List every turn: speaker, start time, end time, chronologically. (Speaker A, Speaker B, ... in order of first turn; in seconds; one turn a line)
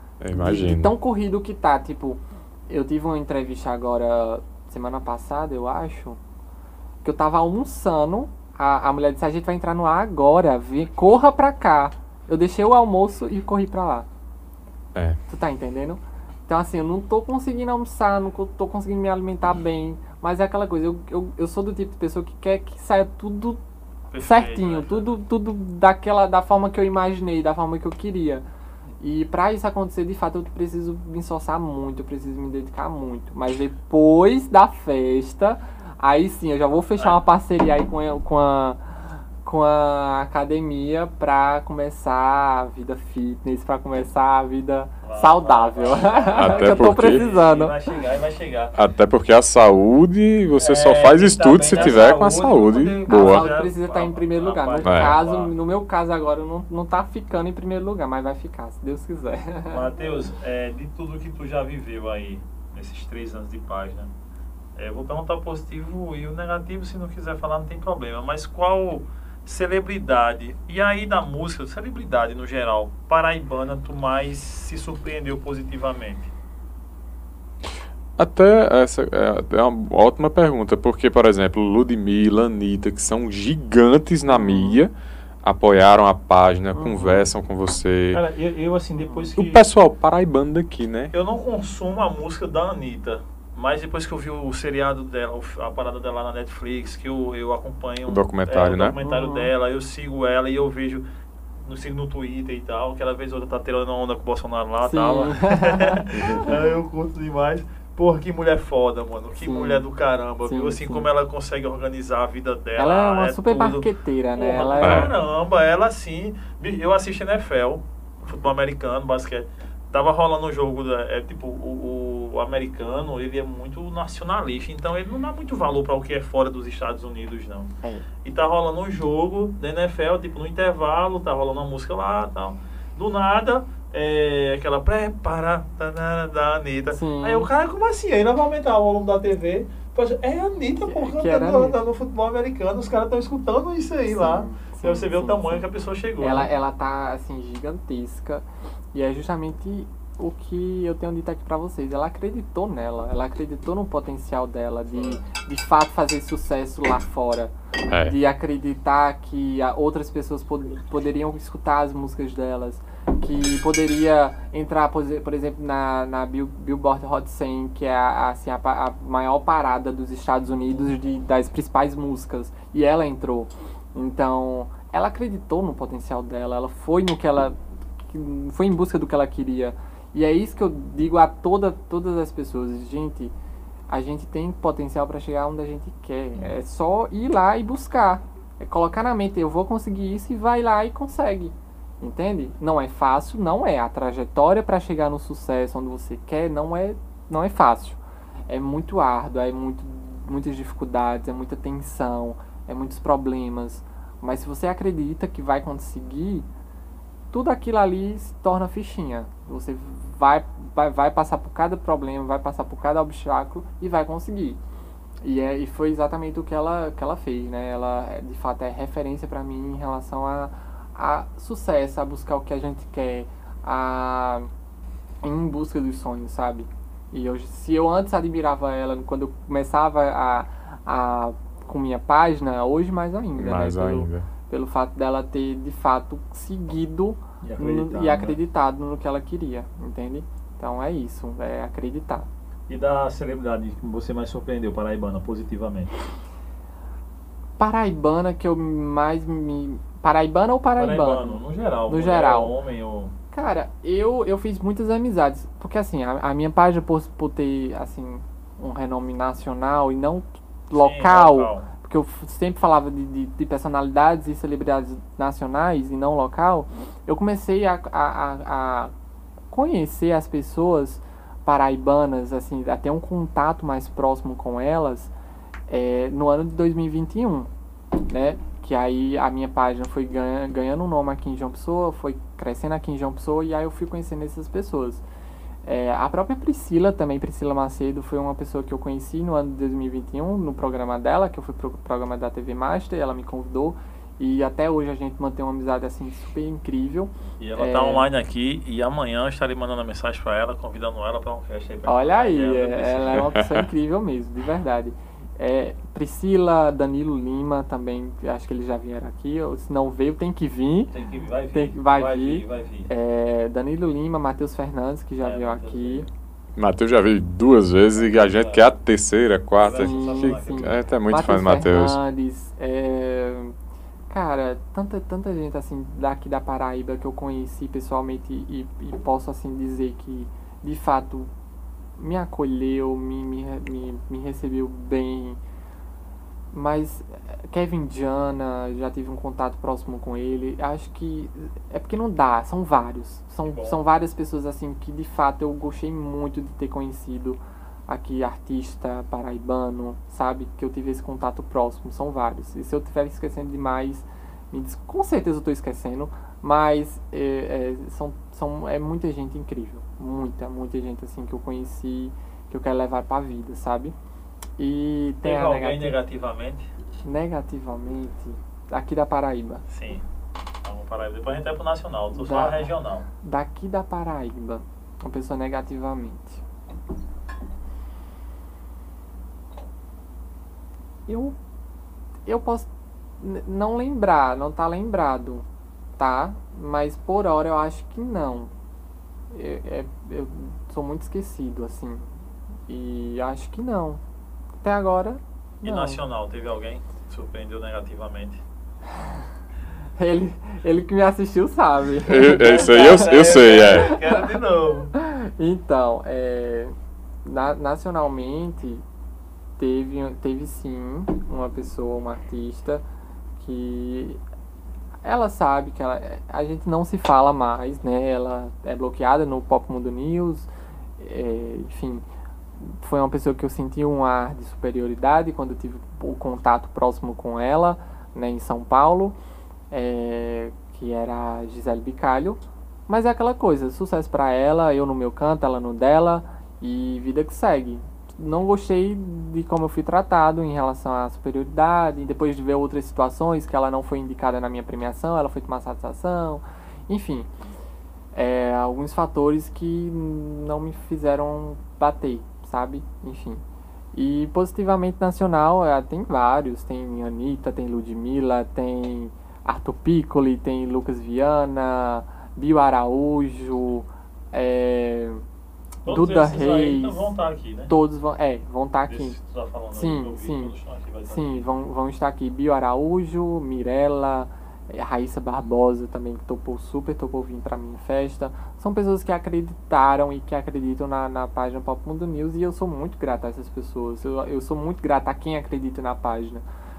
Speaker A: 0.2-0.9
Speaker B: 0.3-6.2
Speaker B: 7.0-14.1
Speaker B: 15.3-23.6
Speaker C: 24.1-25.1
Speaker B: 24.2-28.4
Speaker B: 29.0-38.8
Speaker B: 39.4-48.0
Speaker C: 45.0-48.7
Speaker A: 46.4-47.2
Speaker A: 48.7-53.5
Speaker C: 50.6-55.5
Speaker B: 51.7-52.4
Speaker B: 53.1-59.9
Speaker A: 54.8-55.1
Speaker C: 59.7-64.1
Speaker C: 64.8-76.3
Speaker A: 78.2-84.9
Speaker B: 84.2-84.8
Speaker A: 85.4-88.2
Speaker B: 86.7-87.3
Speaker C: 88.1-89.6
Speaker B: 88.9-89.3
Speaker A: 89.4-91.1
Speaker C: 91.1-101.0
Speaker A: 98.1-98.9
Speaker B: 99.0-99.5
Speaker C: 101.6-127.7
Speaker B: 104.8-106.5
Speaker B: 109.4-109.8
Speaker B: 110.4-111.1
Speaker B: 112.8-115.1
Speaker A: 114.8-115.1
Speaker C: 128.2-146.5
Speaker B: 136.9-137.5
Speaker B: 140.9-141.8
Speaker B: 144.1-145.6
Speaker B: 146.2-177.5
Speaker C: 154.9-155.2
Speaker A: 157.9-158.2
Speaker B: 178.1-183.3
Speaker B: 183.9-206.5
Speaker B: 207.3-214.6
Speaker B: 215.2-224.5
Speaker B: 225.2-242.3
Speaker A: 233.3-234.2
Speaker C: 237.4-238.4
Speaker C: 242.7-245.9
Speaker B: 247.6-252.5
Speaker C: 250.8-253.1
Speaker B: 253.3-268.9
Speaker C: 260.7-261.7
Speaker B: 269.5-275.1
Speaker B: 275.7-277.5
Speaker B: 278.1-285.0
Speaker B: 285.6-298.1
Speaker C: 297.4-303.3
Speaker B: 301.9-310.9
Speaker A: 303.4-303.6
Speaker C: 310.9-312.9
Speaker B: 311.5-316.1
Speaker C: 315.2-316.1
Speaker A: 316.6-322.0
Speaker C: 317.9-318.7
Speaker C: 319.6-320.8
Speaker B: 319.6-323.5
Speaker B: 324.1-331.3
Speaker B: 332.0-335.4
Speaker B: 336.5-363.9
Speaker C: 343.4-343.8
Speaker B: 364.6-365.9
Speaker C: 365.2-366.7
Speaker B: 367.0-369.6
Speaker C: 369.7-370.0
Speaker C: 370.6-373.1
Speaker B: 372.1-376.4
Speaker B: 381.1-381.4
Speaker B: 382.3-382.7
Speaker B: 383.2-385.4
Speaker B: 386.0-388.5
Speaker B: 389.3-392.1
Speaker B: 392.7-394.0
Speaker B: 394.6-396.0
Speaker C: 395.6-398.4
Speaker B: 400.0-404.4
Speaker A: 402.1-404.0
Speaker C: 402.2-404.9
Speaker B: 404.9-406.7
Speaker B: 407.2-408.8
Speaker B: 409.6-412.8
Speaker B: 413.4-414.2
Speaker B: 415.0-422.1
Speaker B: 422.6-429.1
Speaker B: 429.7-447.3
Speaker B: 448.1-453.4
Speaker B: 453.9-465.2
Speaker C: 465.8-467.7
Speaker B: 465.9-467.1
Speaker B: 467.7-469.2
Speaker C: 468.9-471.5
Speaker B: 469.7-470.5
Speaker B: 471.1-486.4